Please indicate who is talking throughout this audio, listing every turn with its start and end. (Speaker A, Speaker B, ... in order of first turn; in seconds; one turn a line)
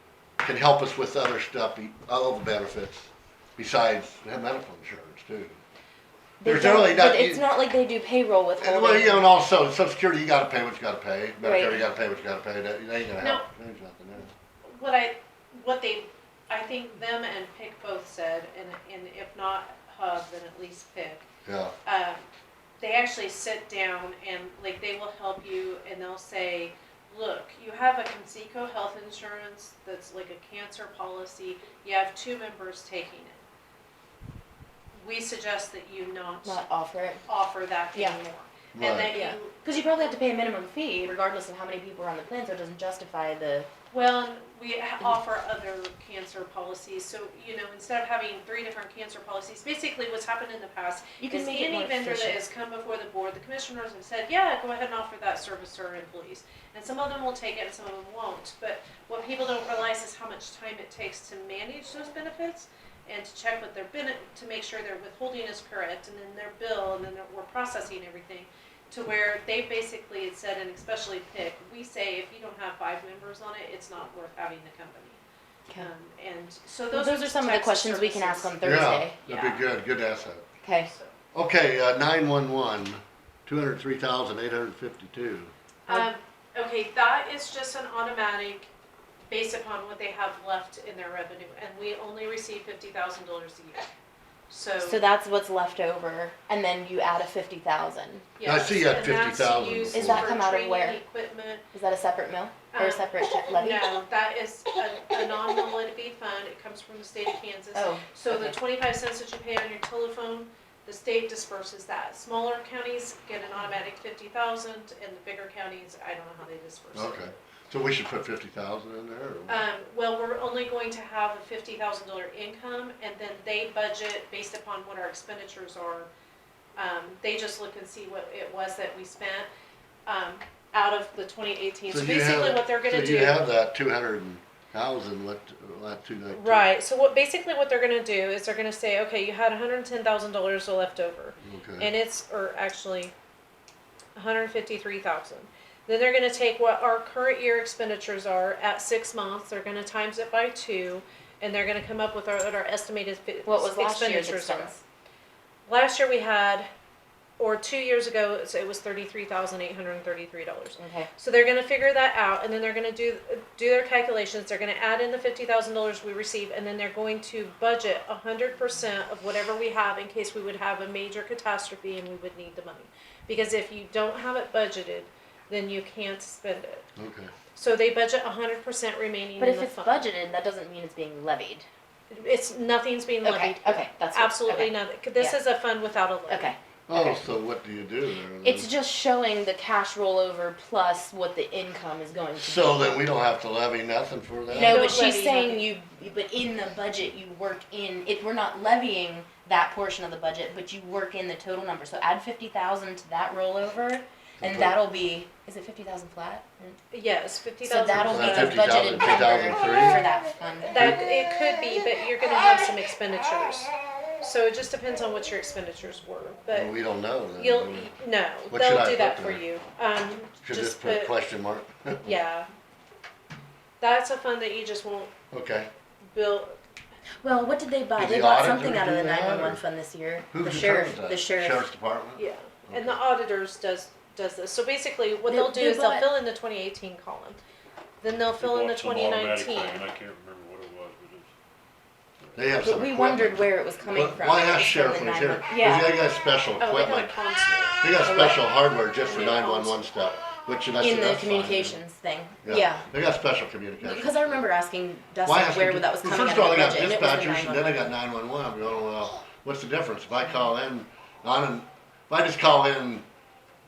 Speaker A: 0.4-5.6
Speaker B: 6.4-9.3
Speaker A: 6.4-7.5
Speaker A: 8.6-14.3
Speaker B: 11.4-11.8
Speaker C: 13.2-13.5
Speaker C: 14.6-21.2
Speaker A: 21.4-21.8
Speaker C: 21.9-22.3
Speaker C: 22.8-33.4
Speaker C: 35.0-36.6
Speaker B: 36.4-37.2
Speaker C: 37.2-39.8
Speaker B: 37.9-38.2
Speaker A: 38.7-39.1
Speaker B: 39.1-43.7
Speaker C: 43.9-75.2
Speaker B: 51.2-52.4
Speaker C: 75.8-78.6
Speaker B: 76.9-79.2
Speaker A: 78.6-80.5
Speaker C: 79.3-79.7
Speaker B: 80.6-80.9
Speaker C: 80.8-81.2
Speaker A: 81.3-85.5
Speaker C: 85.9-88.7
Speaker C: 89.3-93.9
Speaker C: 94.5-95.0
Speaker B: 94.8-98.2
Speaker C: 98.4-101.7
Speaker A: 98.4-100.4
Speaker B: 99.9-101.0
Speaker B: 101.7-103.9
Speaker C: 102.7-117.3
Speaker B: 107.7-108.6
Speaker A: 116.9-119.7
Speaker C: 119.5-126.1
Speaker C: 126.8-129.5
Speaker C: 130.1-133.5
Speaker A: 131.9-136.7
Speaker C: 136.3-143.1
Speaker A: 141.4-141.9
Speaker C: 144.2-154.7
Speaker B: 153.4-154.8
Speaker C: 155.7-156.7
Speaker C: 157.4-176.8
Speaker B: 160.8-161.1
Speaker A: 177.0-177.3
Speaker C: 177.6-180.1
Speaker B: 179.4-181.7
Speaker C: 182.1-186.5
Speaker B: 183.2-185.4
Speaker B: 186.3-187.2
Speaker A: 186.9-188.7
Speaker B: 188.4-193.1
Speaker A: 192.4-194.9
Speaker B: 194.5-206.8
Speaker C: 194.6-195.7
Speaker A: 204.4-204.8
Speaker C: 206.9-208.8
Speaker B: 207.6-210.8
Speaker A: 208.0-210.1
Speaker C: 210.7-216.8
Speaker A: 210.8-211.0
Speaker A: 216.5-217.9
Speaker C: 217.4-221.1
Speaker A: 218.5-219.4
Speaker A: 220.4-222.2
Speaker C: 222.0-222.5
Speaker C: 223.8-225.1
Speaker A: 225.3-225.7
Speaker C: 226.1-226.6
Speaker B: 227.2-231.7
Speaker A: 228.0-229.6
Speaker A: 230.3-233.0
Speaker C: 232.2-237.4
Speaker B: 235.3-236.1
Speaker C: 238.0-239.9
Speaker D: 238.4-241.3
Speaker D: 242.2-242.5
Speaker A: 242.3-247.2
Speaker B: 242.6-245.9
Speaker C: 245.5-246.0
Speaker C: 246.6-247.8
Speaker A: 247.8-251.8
Speaker B: 248.0-248.4
Speaker C: 249.0-249.9
Speaker B: 250.8-252.9
Speaker A: 252.4-254.5
Speaker B: 253.8-257.9
Speaker A: 255.2-263.1
Speaker B: 260.2-260.5